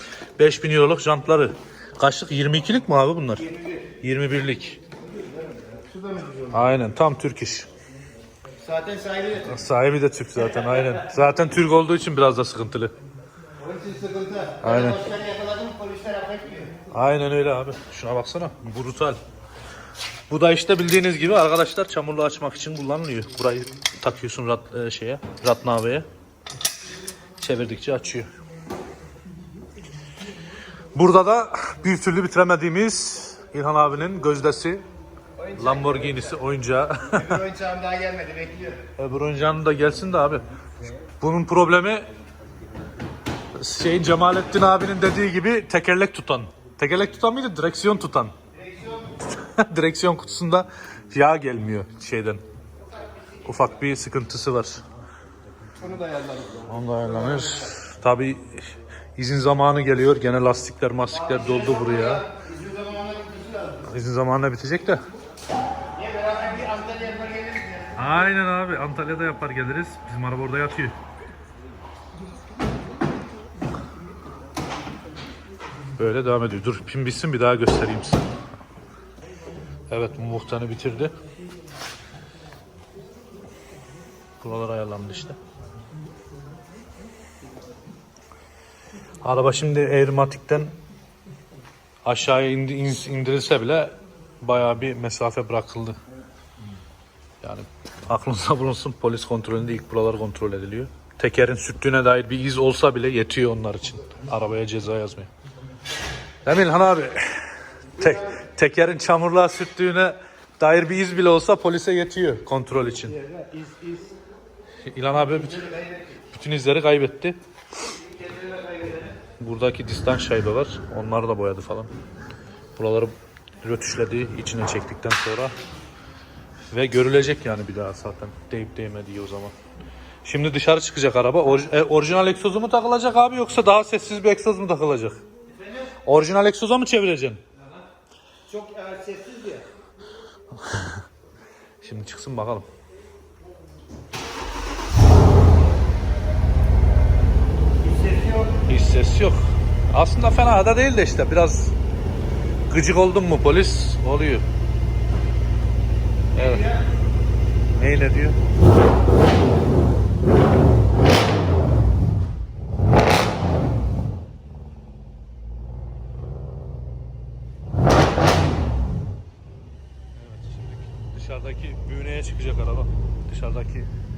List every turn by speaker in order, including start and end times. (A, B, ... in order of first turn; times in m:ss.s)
0:00.4-0:04.8 A
0:05.3-0:06.6 B
0:06.5-0:07.7 A
0:08.6-0:09.6 B
0:09.5-0:13.0 A
0:13.6-0:16.8 B
0:14.6-0:15.0 A
0:16.9-0:19.2 A
0:20.3-0:26.1 A
0:27.4-0:28.3 A
0:31.0-0:34.8 A
0:35.4-0:36.4 B
0:35.6-0:37.4 A
0:37.1-0:38.8 B
0:39.0-0:40.4 A
0:41.2-0:42.1 A
0:43.6-0:48.4 A
0:48.6-0:49.1 B
0:49.2-0:52.4 A
0:53.4-0:54.8 A
0:55.8-0:57.7 B
0:56.7-1:02.3 A
1:01.2-1:03.8 B
1:03.8-1:05.0 A
1:06.0-1:08.0 B
1:08.0-1:11.0 A
1:16.0-1:18.3 A
1:19.9-1:21.2 A
1:24.4-1:25.4 A
1:29.2-1:30.8 A
1:32.0-1:36.0 A
1:37.4-1:45.3 A
1:46.4-1:53.2 A
1:53.1-1:54.2 B
1:54.9-1:57.4 A
1:55.6-1:55.9 B
1:58.3-1:59.1 B
1:59.4-2:01.9 A
2:02.8-2:05.6 A
2:06.7-2:09.6 A
2:10.2-2:15.2 A
2:16.0-2:17.4 A
2:18.5-2:19.7 B
2:20.6-2:21.0 A
2:21.8-2:22.7 A
2:27.8-2:28.5 B
2:28.7-2:31.8 A
2:32.7-2:34.4 A
2:36.3-2:36.7 A
2:37.8-2:38.4 A
2:50.2-2:53.9 A